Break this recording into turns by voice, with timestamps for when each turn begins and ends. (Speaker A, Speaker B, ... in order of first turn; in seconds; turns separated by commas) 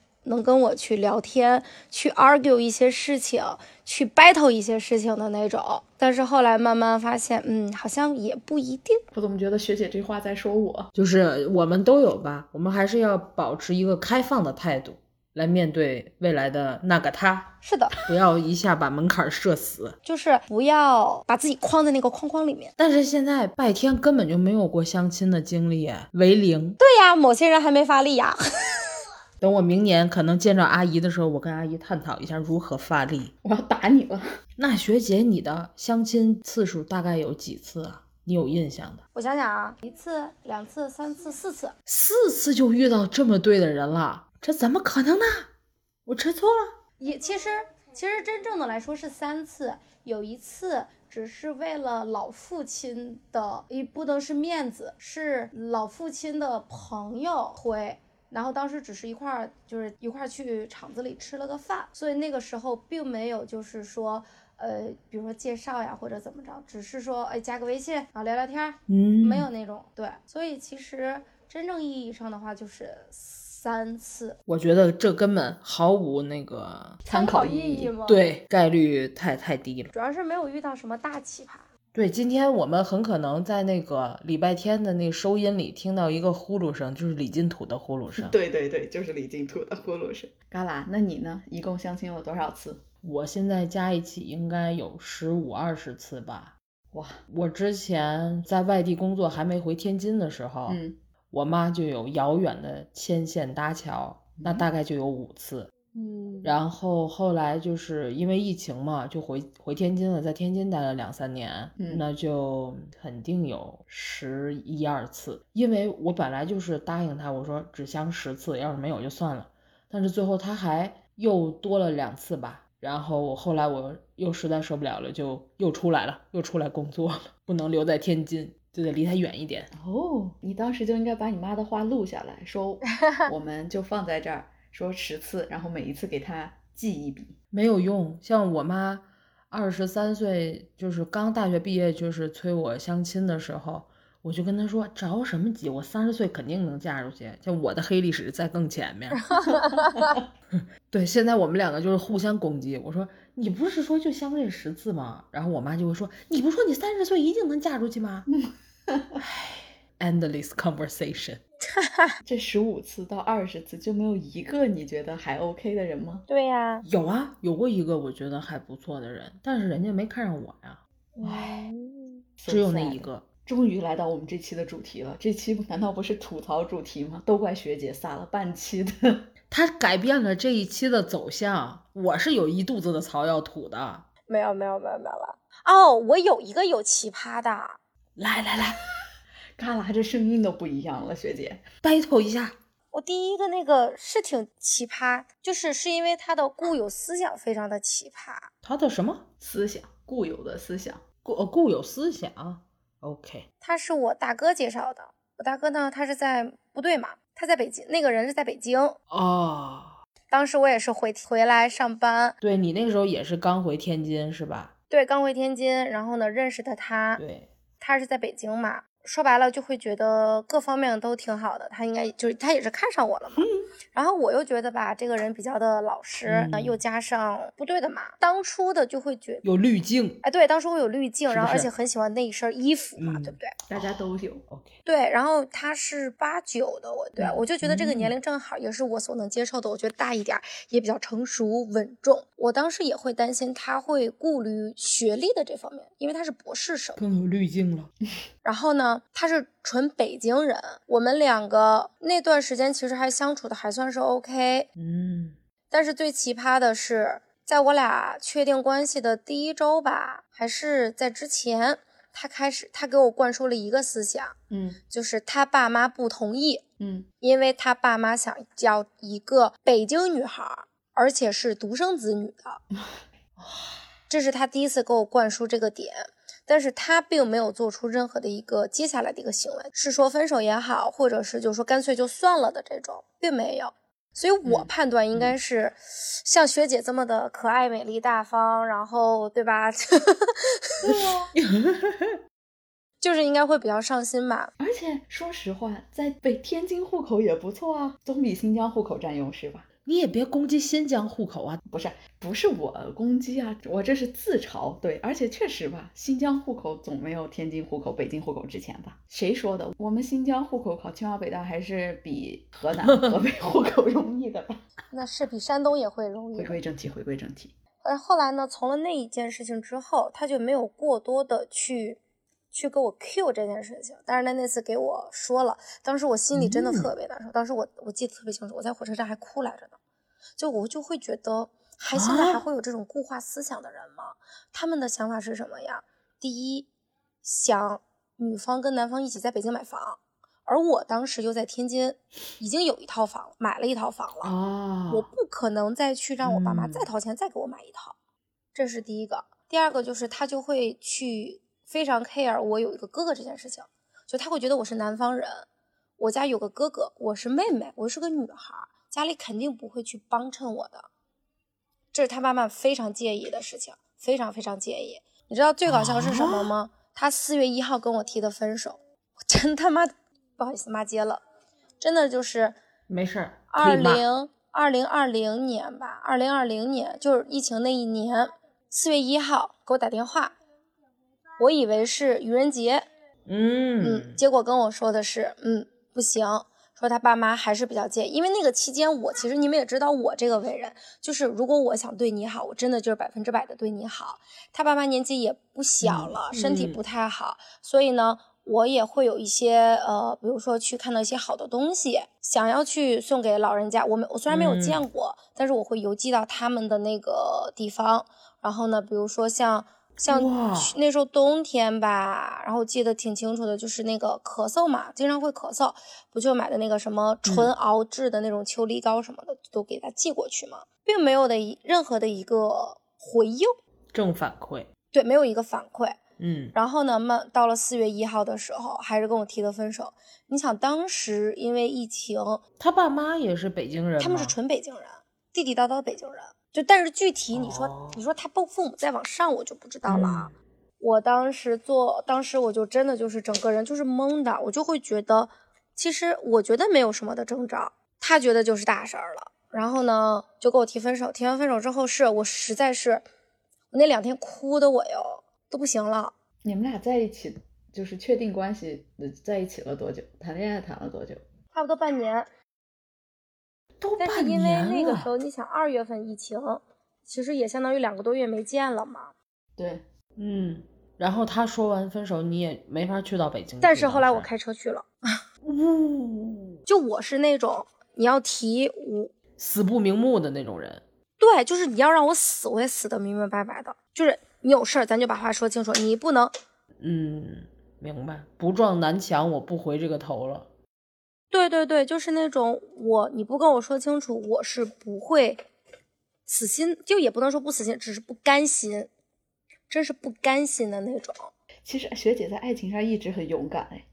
Speaker A: 0.2-9.0, Speaker B: 9.1-10.9, Speaker C: 10.9-20.0, Speaker A: 17.6-18.0, Speaker A: 20.1-22.7, Speaker C: 22.8-26.8, Speaker A: 26.8-28.9, Speaker C: 29.4-33.3, Speaker B: 33.4-34.3, Speaker C: 34.6-39.0, Speaker A: 39.1-41.8, Speaker C: 41.9-45.5, Speaker C: 46.1-46.8, Speaker A: 47.0-74.4, Speaker C: 68.9-69.5, Speaker C: 74.5-77.0, Speaker B: 77.0-77.9, Speaker A: 77.1-78.2, Speaker C: 78.1-79.9, Speaker A: 79.9-81.7, Speaker C: 81.9-88.4, Speaker B: 88.2-92.8, Speaker C: 93.0-96.5, Speaker B: 96.9-97.2, Speaker C: 97.3-100.8, Speaker B: 100.7-101.0, Speaker C: 101.3-105.7, Speaker B: 104.4-104.7, Speaker B: 105.9-106.6, Speaker C: 106.4-129.7, Speaker B: 111.8-112.0, Speaker B: 129.7-137.3, Speaker C: 137.5-149.5, Speaker A: 149.3-150.1, Speaker C: 150.5-158.3, Speaker B: 158.9-159.2, Speaker C: 159.2-161.4, Speaker A: 161.7-162.2, Speaker B: 162.2-166.2, Speaker A: 166.3-166.8, Speaker C: 166.8-170.8, Speaker A: 171.2-172.2, Speaker B: 171.2-171.6, Speaker B: 172.4-179.3, Speaker C: 172.5-173.3, Speaker C: 179.5-184.1, Speaker A: 184.3-187.8, Speaker C: 188.2-188.8, Speaker B: 189.6-191.7, Speaker C: 191.8-192.6, Speaker A: 192.9-198.5, Speaker C: 198.6-199.3, Speaker B: 199.4-201.0, Speaker C: 201.2-203.5, Speaker A: 203.6-209.0, Speaker C: 209.1-210.0, Speaker A: 210.3-212.4, Speaker C: 212.4-214.7, Speaker A: 214.9-217.2, Speaker C: 217.2-217.5, Speaker A: 217.8-229.4, Speaker C: 226.3-226.8, Speaker C: 229.4-230.2, Speaker A: 230.2-233.5, Speaker C: 231.3-231.7, Speaker C: 233.0-233.4, Speaker B: 233.7-234.4, Speaker C: 234.5-234.8, Speaker A: 234.8-247.0, Speaker C: 237.6-238.1, Speaker C: 247.0-247.9, Speaker A: 248.4-254.7, Speaker C: 254.8-255.4, Speaker A: 255.7-264.4, Speaker B: 264.5-264.8, Speaker A: 264.9-266.6, Speaker B: 266.8-267.1, Speaker A: 267.2-272.6, Speaker A: 274.1-290.8, Speaker B: 290.8-291.3, Speaker C: 291.3-292.2, Speaker A: 293.0-294.5, Speaker B: 294.6-299.7, Speaker C: 299.9-301.6, Speaker B: 301.7-314.6, Speaker A: 314.9-316.6, Speaker B: 316.4-317.6, Speaker A: 317.8-322.0, Speaker A: 322.5-329.8, Speaker C: 326.3-326.9, Speaker A: 330.4-336.7, Speaker C: 331.9-332.4, Speaker A: 337.2-344.3, Speaker C: 344.2-345.1, Speaker A: 344.9-348.0, Speaker C: 346.2-346.9, Speaker A: 348.5-355.5, Speaker A: 356.0-360.9, Speaker A: 361.9-371.2, Speaker C: 365.7-366.5, Speaker A: 371.8-372.6, Speaker C: 372.9-374.1, Speaker A: 373.5-380.3, Speaker A: 381.4-382.9, Speaker C: 383.3-384.2, Speaker A: 383.8-423.6, Speaker C: 395.8-396.8, Speaker C: 404.3-404.8, Speaker C: 410.1-410.8, Speaker C: 417.2-417.5, Speaker C: 423.9-424.7, Speaker A: 424.9-426.0, Speaker C: 426.2-426.6, Speaker A: 426.5-432.4, Speaker C: 432.6-434.4, Speaker A: 434.0-453.0, Speaker C: 437.3-438.0, Speaker C: 439.9-440.3, Speaker A: 453.7-456.1, Speaker B: 456.4-461.2, Speaker A: 461.5-462.3, Speaker C: 463.8-465.1, Speaker A: 464.0-469.1, Speaker B: 469.6-469.8, Speaker C: 470.2-474.3, Speaker A: 473.6-474.9, Speaker C: 475.4-476.6, Speaker A: 476.7-479.1, Speaker C: 479.4-480.8, Speaker A: 481.2-486.3, Speaker C: 486.8-490.5, Speaker A: 491.3-495.4, Speaker A: 496.3-498.9, Speaker A: 499.7-501.3, Speaker B: 501.6-503.9